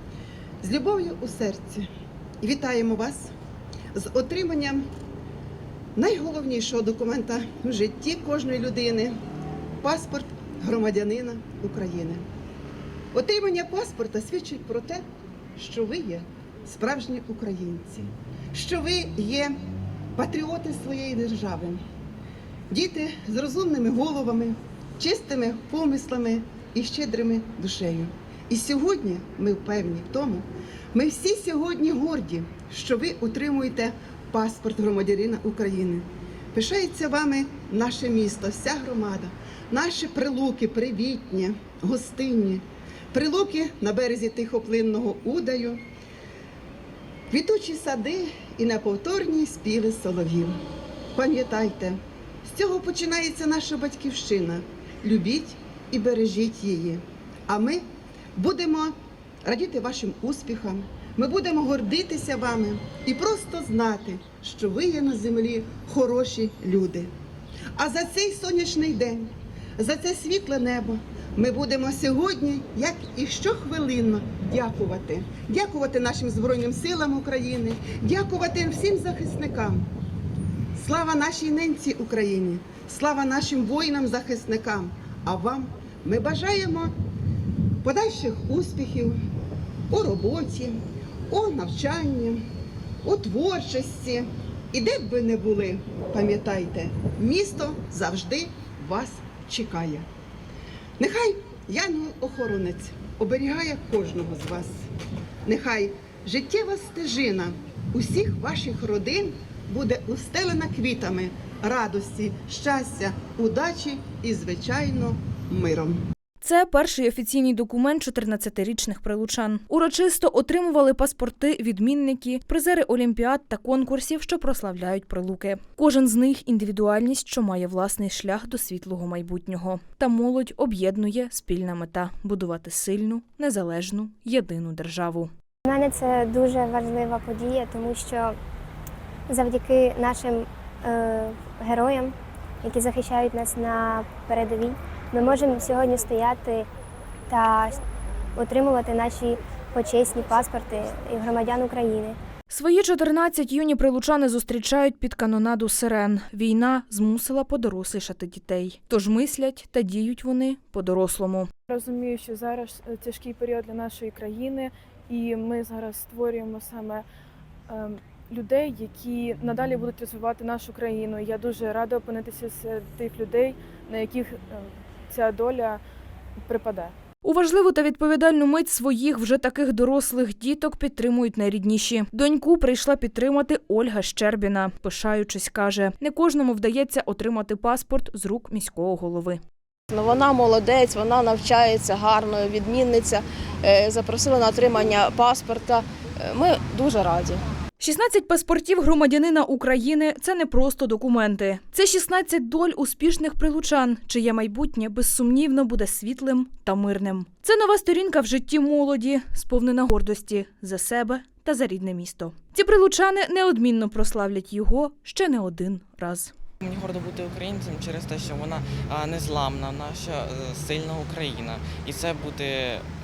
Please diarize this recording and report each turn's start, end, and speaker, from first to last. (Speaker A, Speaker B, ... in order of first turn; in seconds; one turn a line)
Speaker A: 0.6-1.9
Speaker A: 2.4-3.3
Speaker A: 3.9-4.8
Speaker A: 6.0-9.1
Speaker A: 9.8-12.2
Speaker A: 13.1-15.0
Speaker A: 15.6-19.5
Speaker A: 20.1-21.8
Speaker A: 22.7-45.8
Speaker A: 47.3-50.5
Speaker A: 51.1-57.8
Speaker A: 58.4-58.9
Speaker A: 59.4-67.1
Speaker A: 67.8-79.8
Speaker A: 80.7-86.9
Speaker A: 87.8-89.2
Speaker A: 89.9-92.4
Speaker A: 93.0-100.0
Speaker A: 101.0-104.8
Speaker A: 105.5-116.0
Speaker B: 116.4-135.3
Speaker C: 135.7-138.3
Speaker C: 139.3-146.7
Speaker C: 147.3-147.8
Speaker C: 148.3-152.2
Speaker B: 152.5-161.5
Speaker D: 161.7-167.0
Speaker D: 167.7-175.8
Speaker D: 176.4-176.9
Speaker B: 177.2-189.4
Speaker E: 189.9-197.4
Speaker B: 197.8-216.3
Speaker F: 216.6-222.8